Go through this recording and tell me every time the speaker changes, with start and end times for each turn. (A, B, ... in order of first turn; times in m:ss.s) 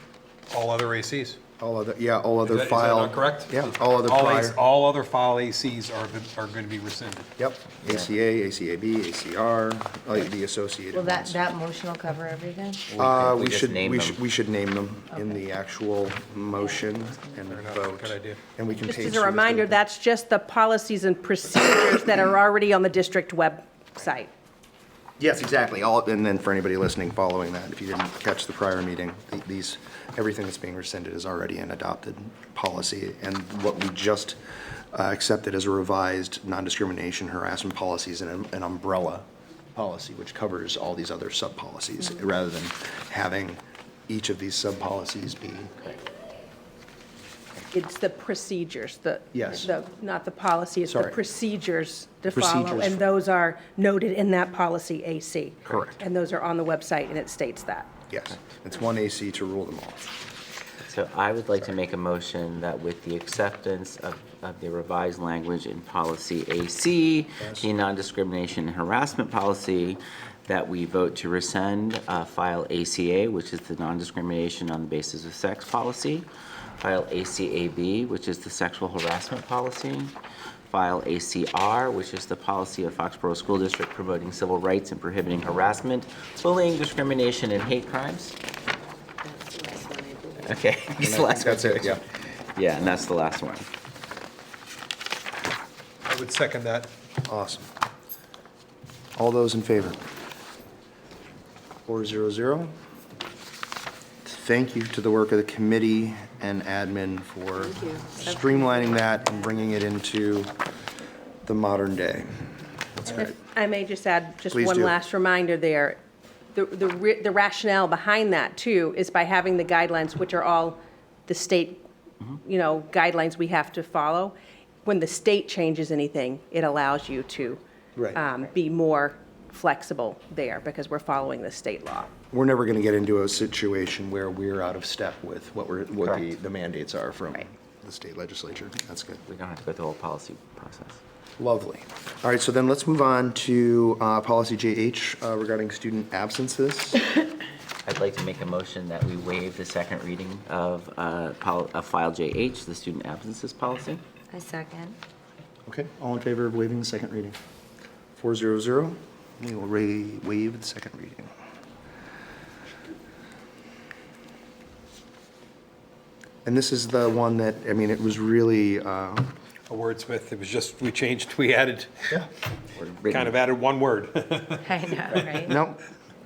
0:00.5-0:01.4 A
0:01.6-0:04.6 B
0:02.4-0:07.3 A
0:07.4-0:11.4 B
0:10.9-0:12.9 C
0:12.9-0:14.2 D
0:13.0-0:19.8 B
0:17.4-0:18.4 A
0:18.9-0:24.3 E
0:25.2-0:34.4 B
0:34.9-0:45.9 B
0:47.7-0:57.9 E
0:49.3-0:49.7 B
0:50.9-0:51.1 B
0:52.3-0:53.0 B
0:55.7-0:55.9 D
0:55.7-0:56.0 B
0:58.1-1:00.1 B
1:00.8-1:16.3 D
1:07.4-1:07.7 B
1:16.8-1:20.1 D
1:20.7-1:28.4 D
1:29.2-1:30.5 C
1:30.4-1:33.7 D
1:31.0-1:32.0 B
1:36.0-1:36.9 A
1:37.2-1:37.7 B
1:39.1-1:40.0 B
1:41.9-1:42.7 B
1:44.3-1:50.6 B
1:47.7-1:49.5 C
1:51.4-1:53.3 B
1:53.1-1:56.0 E
1:54.5-1:55.0 B
1:56.6-2:01.8 E
2:02.4-2:07.6 E
2:08.1-2:12.1 E
2:12.3-2:19.2 B
2:19.2-2:21.0 D
2:21.4-2:27.0 B
2:27.8-2:34.0 D
2:34.3-2:35.0 C
2:35.7-2:37.4 B
2:38.2-2:41.3 B
2:46.4-2:49.3 B
2:49.7-2:52.2 A
2:52.8-2:53.3 D
2:53.1-2:55.4 A
2:54.6-2:55.6 C
2:55.5-2:55.8 B